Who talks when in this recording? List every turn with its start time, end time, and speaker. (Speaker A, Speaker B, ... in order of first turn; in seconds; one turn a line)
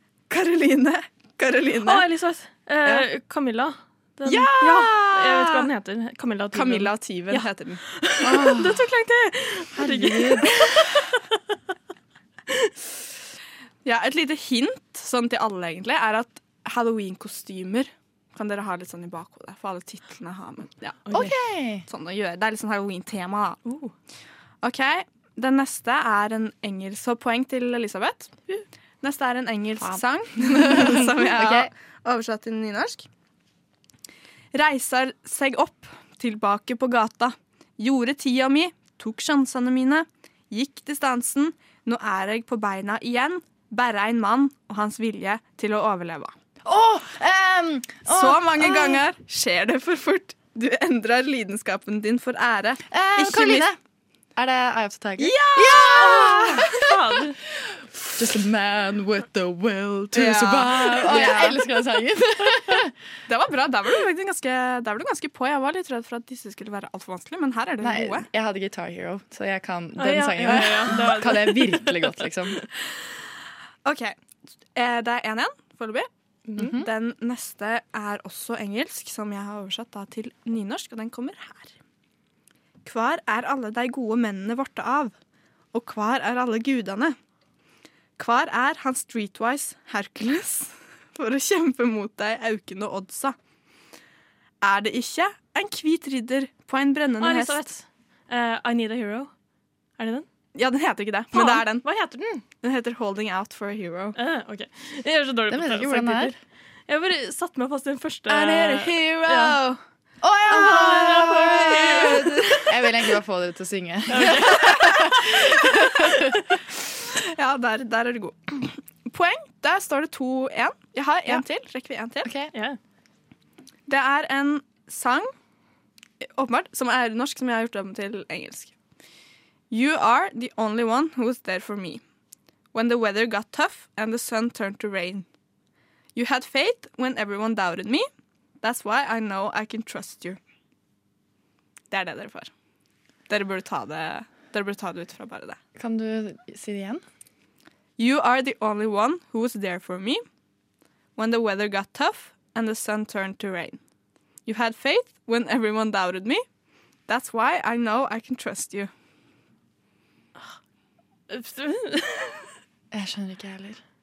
Speaker A: 0.3-2.1
Speaker B: 1.8-7.5
Speaker A: 4.2-5.7
Speaker A: 6.5-8.9
Speaker B: 8.0-10.5
Speaker C: 8.4-8.7
Speaker A: 10.1-10.4
Speaker A: 13.8-23.8
Speaker C: 21.1-21.9
Speaker A: 24.6-33.1
Speaker C: 30.6-31.7
Speaker A: 34.5-46.4
Speaker C: 46.6-49.0
Speaker A: 48.0-53.7
Speaker C: 52.9-53.8
Speaker C: 54.4-57.1
Speaker A: 55.2-56.6
Speaker B: 56.8-57.4
Speaker C: 58.0-62.9
Speaker A: 60.1-61.6
Speaker A: 63.3-68.3
Speaker C: 67.8-72.7
Speaker B: 70.0-72.1
Speaker A: 70.4-71.0
Speaker A: 73.8-74.2
Speaker A: 74.7-81.8
Speaker C: 76.5-76.9
Speaker A: 82.8-85.2
Speaker A: 85.7-87.2
Speaker A: 88.2-93.4
Speaker A: 94.6-97.7
Speaker B: 97.2-99.3
Speaker B: 100.0-100.3
Speaker A: 100.5-101.9
Speaker B: 101.3-102.4
Speaker A: 102.6-104.2
Speaker B: 104.2-109.6
Speaker C: 105.5-106.3
Speaker A: 108.3-109.8
Speaker C: 110.5-115.2
Speaker B: 110.5-112.3
Speaker A: 110.5-112.3
Speaker B: 114.1-114.5
Speaker A: 117.3-122.3
Speaker C: 122.2-122.5
Speaker A: 123.9-125.3
Speaker A: 126.2-128.8
Speaker A: 129.7-132.0
Speaker A: 132.7-135.3
Speaker A: 136.2-138.1
Speaker A: 138.6-140.4
Speaker A: 141.9-142.5
Speaker A: 143.3-145.6
Speaker C: 145.8-147.0
Speaker A: 148.0-150.2
Speaker A: 151.2-153.8
Speaker A: 154.4-156.5
Speaker A: 157.1-158.9
Speaker B: 161.3-162.3
Speaker C: 162.9-163.8